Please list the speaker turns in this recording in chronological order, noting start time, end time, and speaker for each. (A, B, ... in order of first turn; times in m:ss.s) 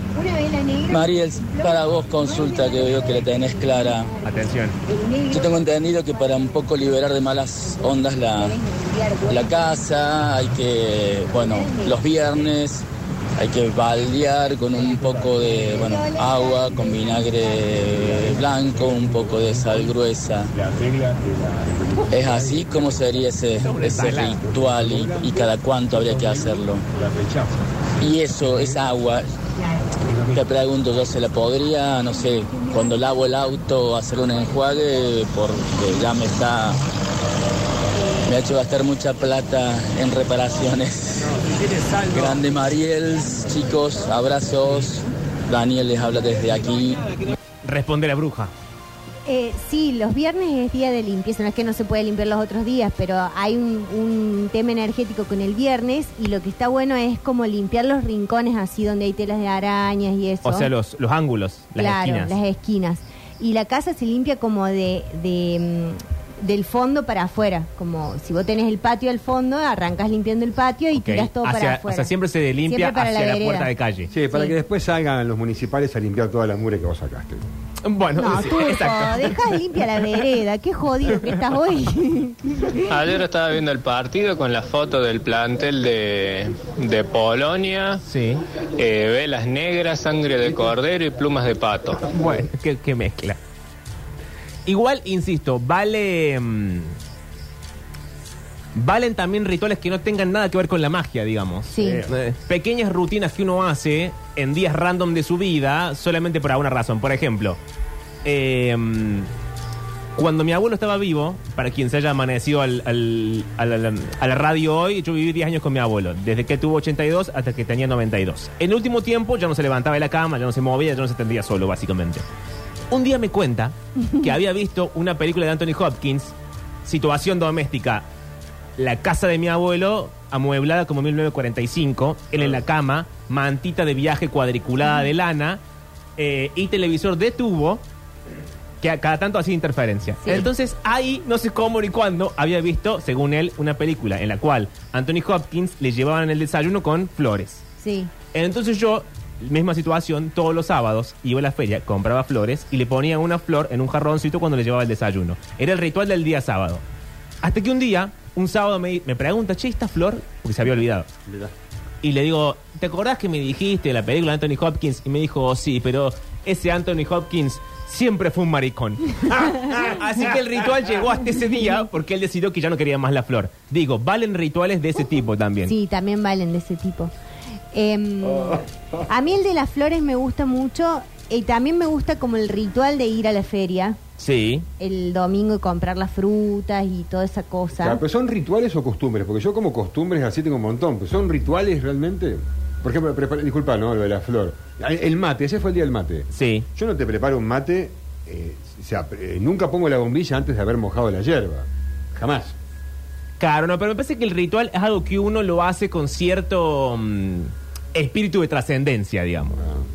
0:00.2-0:04.3 A
0:00.9-0:04.1 B
0:04.2-0:04.8 C
0:04.8-0:06.5 A
0:05.3-0:08.6 B
0:08.4-0:09.4 A
0:09.3-0:20.5 B
0:11.4-0:12.0 A
0:14.9-0:15.7 D
0:15.7-0:17.2 A
0:17.7-0:19.9 D
0:20.5-0:28.8 D
0:22.1-0:26.8 B
0:23.5-0:24.4 C
0:28.0-0:29.3 B
0:30.0-0:30.5 D
0:30.3-0:36.8 B
0:38.2-0:41.4 B
0:41.4-0:42.2 C
0:42.1-0:47.1 B
0:47.6-0:48.5 C
0:49.3-1:00.7 A
1:00.4-1:02.4 C
1:01.8-1:12.1 A
1:10.9-1:14.1 C
1:12.7-1:13.7 A
1:14.1-1:17.4 D
1:17.8-1:19.9 C
1:18.2-1:22.9 A
1:22.9-1:28.0 E
1:28.0-1:28.4 C
1:28.8-1:32.1 E
1:32.1-1:33.4 C
1:34.7-1:37.0 C
1:38.8-1:47.6 C
1:41.7-1:42.0 A
1:41.8-1:42.2 D
1:48.2-1:49.3 C
1:50.2-2:02.2 C
2:02.9-2:08.1 C
2:08.8-2:15.6 C
2:16.2-2:17.8 C
2:18.8-2:27.6 C
2:20.2-2:20.5 A
2:27.8-2:28.1 A
2:28.3-2:36.8 C
2:37.4-2:41.1 C
2:41.3-2:41.5 D
2:42.0-2:55.7 C
2:49.5-2:50.2 D
2:55.7-2:57.1 A
2:57.7-3:04.0 A
3:04.2-3:04.7 C
3:04.8-3:08.0 A
3:07.8-3:22.6 D
3:16.3-3:16.7 C
3:23.4-3:29.6 C
3:29.6-3:29.8 D